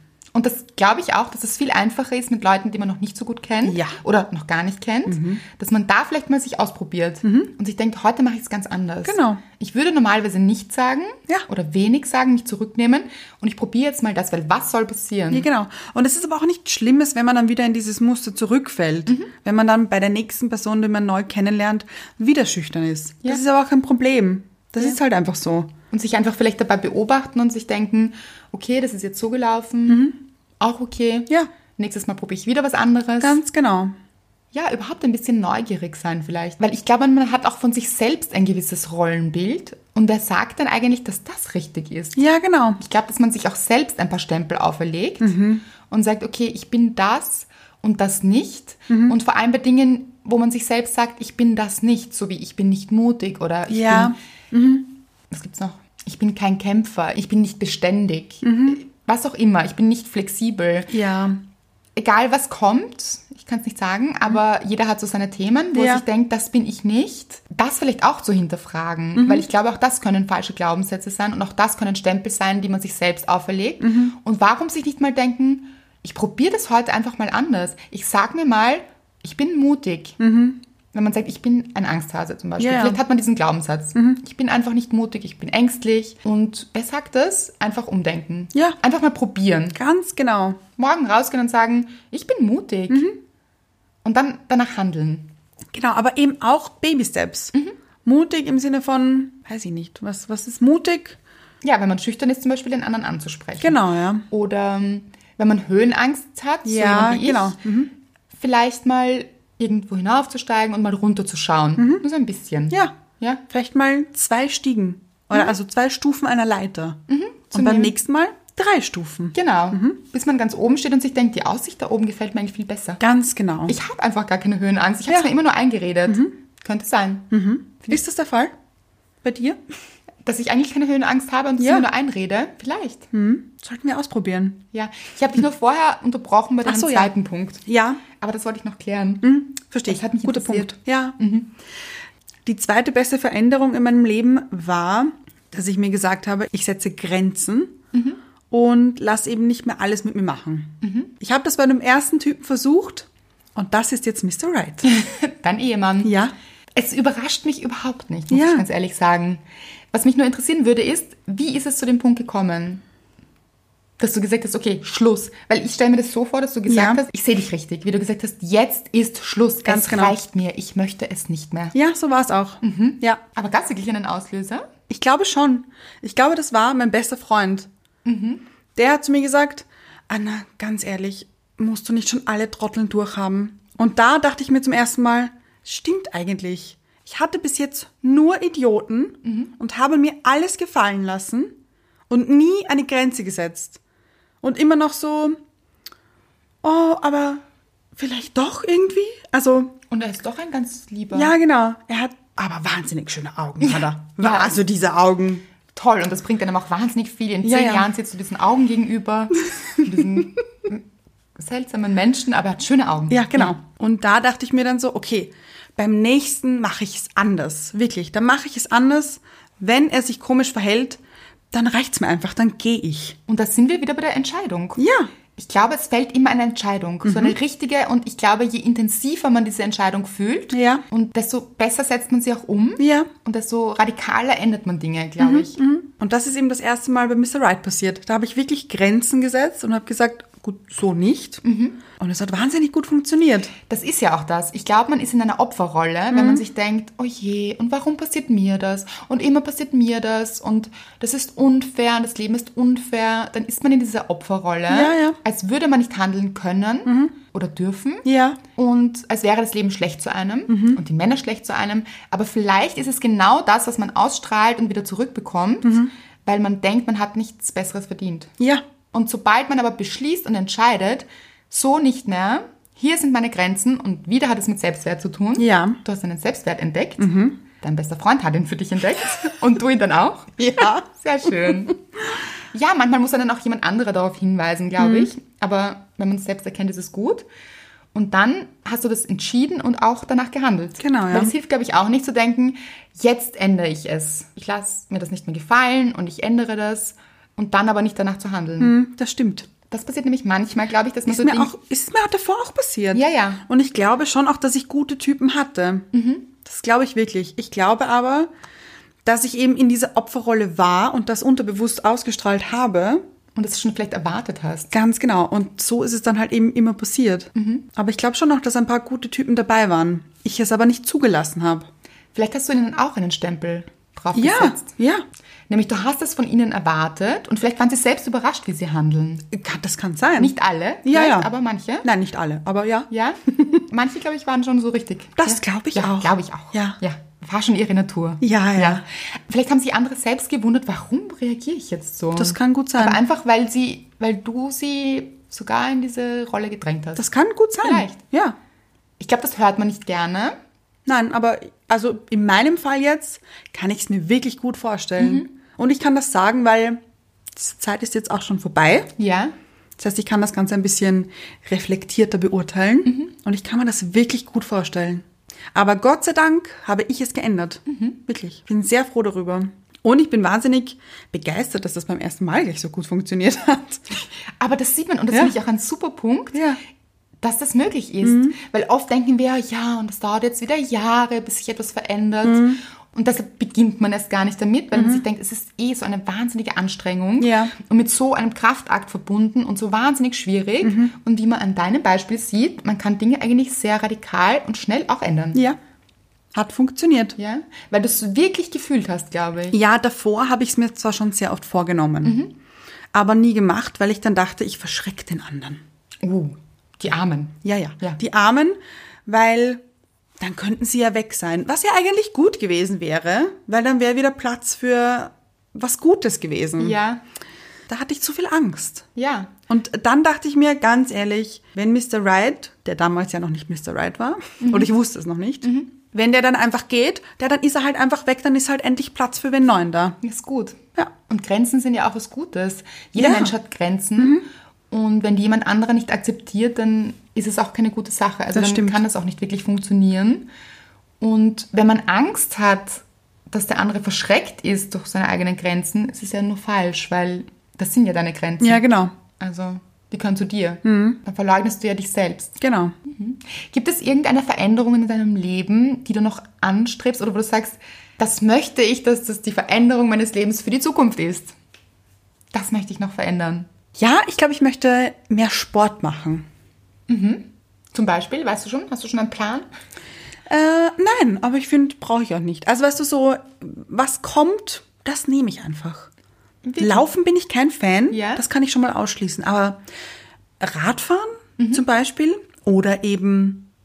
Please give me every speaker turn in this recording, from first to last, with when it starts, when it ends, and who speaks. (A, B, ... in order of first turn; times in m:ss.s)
0:00.3-0:15.4 A
0:03.6-0:04.0 B
0:05.1-0:05.4 B
0:07.2-0:07.5 B
0:09.0-0:09.4 B
0:15.3-0:25.7 B
0:25.9-0:33.4 A
0:29.9-0:30.2 B
0:33.2-0:33.9 B
0:34.5-0:42.2 A
0:42.2-0:42.8 B
0:42.8-0:54.2 A
0:45.2-0:45.6 B
0:48.9-0:49.2 B
0:53.7-0:54.9 B
0:55.3-1:00.9 A
0:58.4-0:58.8 B
1:00.9-1:01.4 B
1:02.0-1:20.2 A
1:05.7-1:06.0 B
1:09.2-1:09.5 B
1:13.8-1:14.1 B
1:20.2-1:20.6 B
1:20.9-1:29.8 A
1:22.6-1:23.0 B
1:23.9-1:24.2 B
1:29.7-1:30.6 B
1:30.8-1:33.1 A
1:32.9-1:33.2 B
1:34.0-1:35.3 A
1:35.7-1:37.5 B
1:38.0-1:41.2 B
1:41.6-1:47.6 A
1:43.6-1:44.2 B
1:46.6-1:47.9 B
1:48.3-1:53.4 A
1:51.8-1:52.0 B
1:52.7-1:53.0 B
1:53.5-1:57.0 B
1:57.1-1:57.9 A
1:57.5-2:00.0 B
1:59.3-2:03.0 A
2:03.0-2:03.7 B
2:03.7-2:07.3 A
2:06.1-2:06.3 B
2:07.3-2:08.5 B
2:09.2-2:09.6 B
2:10.2-2:13.1 A
2:11.6-2:11.9 B
2:13.1-2:14.6 B
2:14.7-2:21.5 A
2:16.6-2:17.1 B
2:17.6-2:18.0 B
2:19.2-2:21.2 B
2:22.4-2:27.8 B
2:27.9-2:28.2 A
2:28.5-2:34.9 B
2:30.8-2:31.1 A
2:34.8-2:36.1 A
2:36.0-2:36.3 B
2:36.8-2:39.4 A
2:38.3-2:38.6 B
2:39.9-2:42.8 A
2:44.0-2:51.8 A
2:46.7-2:47.0 B
2:49.6-2:50.2 B
2:51.7-2:53.2 B
2:52.6-2:54.7 A
2:54.9-2:57.7 B
2:58.0-2:58.4 A
2:58.7-3:11.5 B
3:09.2-3:09.5 A
3:12.1-3:13.8 B
3:14.4-3:15.4 B
3:16.6-3:17.4 B
3:17.9-3:19.7 B
3:19.9-3:21.3 A
3:21.1-3:25.4 B
3:23.6-3:24.6 A
3:25.7-3:30.8 A
3:27.4-3:27.9 B
3:31.4-3:33.6 A
3:33.1-3:41.0 B
3:41.5-3:43.2 B
3:43.3-3:44.8 A
3:44.8-3:45.1 B
3:45.4-3:55.6 A
3:47.0-3:47.4 B
3:50.5-3:50.8 B
3:52.8-3:53.1 B
3:55.2-4:01.4 B
4:01.4-4:01.8 A
4:02.0-4:03.5 B
4:03.7-4:28.3 A
4:06.1-4:06.4 B
4:14.7-4:15.2 B
4:16.8-4:17.1 B
4:18.0-4:18.4 B
4:20.5-4:20.8 B
4:25.6-4:25.9 B
4:28.9-4:41.8 A
4:35.4-4:35.8 B
4:37.0-4:37.4 B
4:40.4-4:40.8 B
4:42.5-4:47.3 A
4:44.8-4:45.1 B
4:47.9-4:58.8 A
4:50.8-4:51.3 B
4:58.6-4:59.5 B
4:59.7-5:01.5 A
5:01.1-5:05.9 B
5:02.9-5:03.4 A
5:05.9-5:06.3 A
5:06.4-5:08.3 B
5:09.0-5:13.0 B
5:13.4-5:14.7 A
5:14.7-5:21.7 B
5:17.3-5:17.6 A
5:22.1-5:24.7 A
5:24.1-5:25.0 B
5:25.5-5:29.3 A
5:29.3-5:30.3 B
5:30.2-5:31.9 A
5:30.8-5:31.3 B
5:31.8-5:33.6 B
5:32.9-5:47.0 A
5:35.2-5:36.8 B
5:38.2-5:38.8 B
5:42.2-5:43.0 B
5:47.0-5:48.4 B
5:47.6-5:48.0 A
5:49.0-5:50.4 A
5:50.8-5:56.8 B
5:55.0-5:55.3 A
5:57.3-5:58.9 B
5:59.0-5:59.3 A
5:59.8-6:13.8 B
6:02.8-6:03.1 A
6:07.7-6:08.0 A
6:14.4-6:16.5 A
6:16.3-6:16.6 B
6:17.2-6:35.4 A
6:18.0-6:18.4 B
6:22.2-6:22.6 B
6:24.7-6:25.0 B
6:27.2-6:27.5 B
6:30.6-6:30.9 B
6:36.3-6:37.2 B
6:37.2-6:39.6 A
6:39.5-6:42.2 B
6:42.0-6:42.3 A
6:42.9-6:45.6 B
6:46.0-6:48.0 A
6:47.4-6:49.6 B
6:50.2-6:56.8 B
6:56.6-6:57.0 A
6:57.7-6:58.9 B
6:59.0-6:59.3 A
6:59.5-7:10.0 B
7:04.4-7:04.7 A
7:10.0-7:20.3 A
7:13.0-7:13.3 B
7:14.0-7:14.2 B
7:18.3-7:18.8 B
7:21.0-7:41.3 A
7:28.4-7:28.9 B
7:30.6-7:31.0 B
7:32.4-7:32.7 B
7:42.3-7:43.5 A
7:43.8-7:46.2 B
7:46.9-7:49.4 A
7:50.3-7:55.9 B
7:56.4-7:56.9 A
7:56.6-7:59.6 B
7:57.9-7:58.2 A
8:00.4-8:03.5 B